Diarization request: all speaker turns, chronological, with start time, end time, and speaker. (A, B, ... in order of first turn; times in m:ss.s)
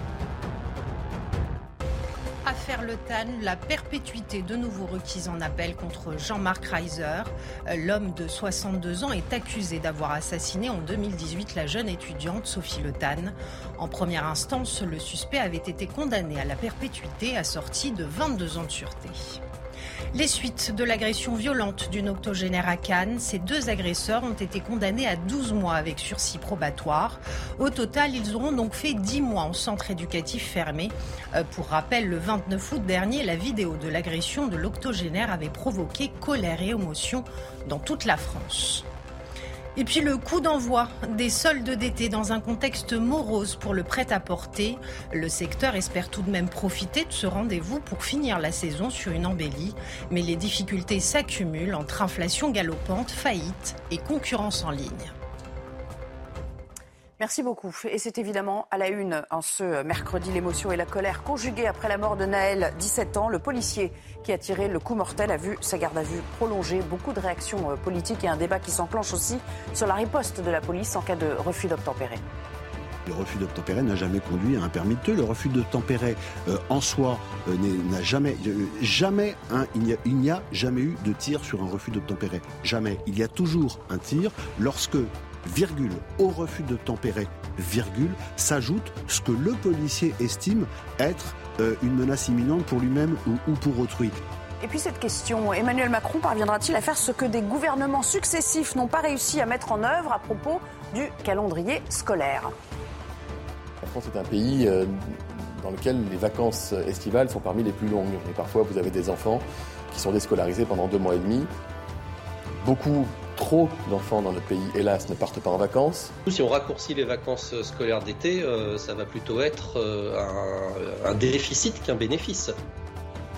0:02.4-0:19.4 A
0:20.1-0:38.8 A
0:39.8-0:55.1 A
0:57.2-1:12.2 B
1:13.0-1:34.2 C
1:34.6-1:42.5 B
1:43.8-1:51.5 D
1:52.6-1:56.2 D
1:56.3-2:02.5 E